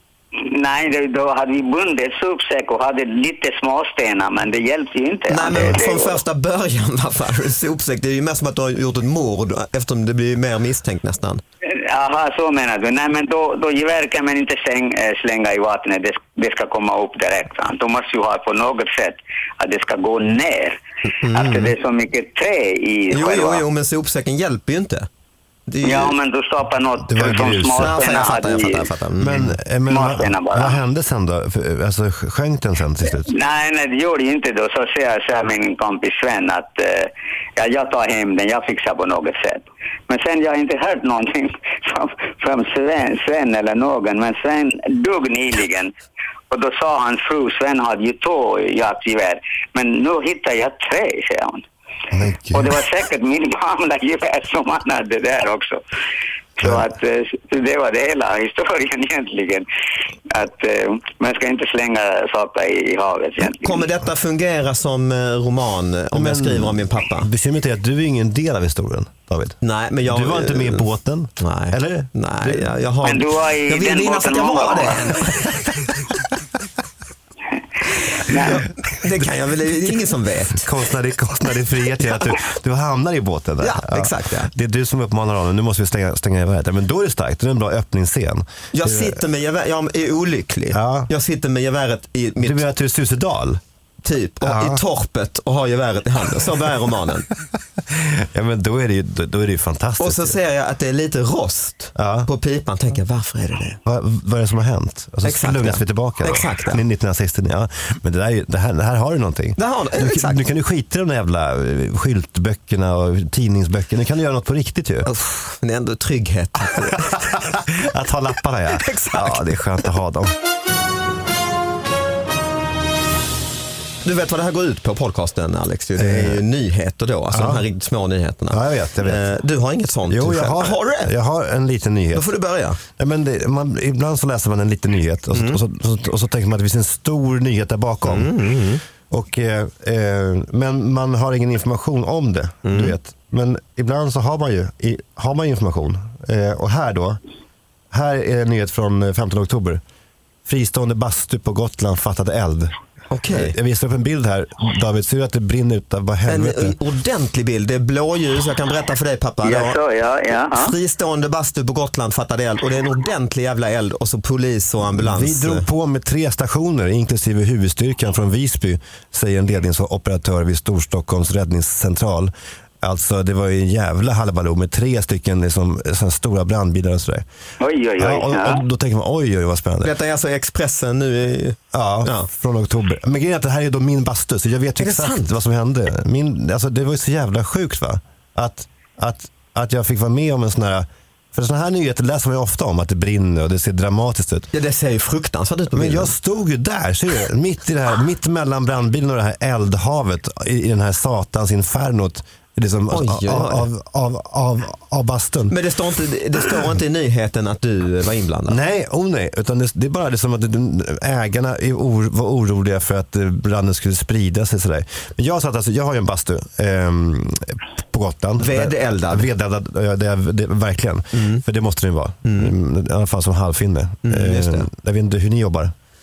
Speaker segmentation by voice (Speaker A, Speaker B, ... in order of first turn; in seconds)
Speaker A: 0.4-6.2, 11.7-20.8, 21.3-23.6, 25.8-28.9, 29.9-30.8, 33.3-45.9, 46.5-51.6, 52.5-55.8, 56.6-59.6, 60.3-63.8, 73.0-75.1, 78.3-78.6, 159.4-160.7, 177.6-178.6
Speaker B: 5.3-11.4, 21.1-21.7, 23.1-25.1, 25.7-26.1, 27.7-29.6, 63.5-67.3, 69.6-70.8, 71.4-75.9, 78.1-80.7, 83.6-84.5, 88.7-92.6, 94.0-97.3, 100.0-103.8, 105.2-106.8, 109.6-110.4, 115.1-117.3, 118.7-119.5, 124.0-131.1, 132.1-132.8, 135.3-135.6, 138.0-138.8, 142.7-142.9, 153.1-153.5, 156.3-159.8, 160.5-165.7, 179.8-182.3, 184.8-185.3, 194.5-196.1, 202.9-203.7, 205.5-208.6, 218.4-219.3, 221.1-221.4, 222.2-222.5, 224.0-224.7
Speaker C: 5.5-5.8, 27.0-28.1, 29.2-33.3, 52.1-52.7, 56.6-56.9, 66.1-72.7, 80.6-89.2, 90.7-91.1, 92.4-93.6, 94.4-94.8, 97.9-100.4, 102.0-102.3, 103.8-115.1, 116.8-120.3, 126.0-126.4, 127.3-127.6, 128.5-129.3, 130.1-132.3, 132.9-138.3, 139.1-147.2, 147.9-149.8, 150.4-152.7, 153.3-156.8, 164.9-177.2, 178.0-179.9, 181.7-194.5, 195.7-205.6, 208.5-225.7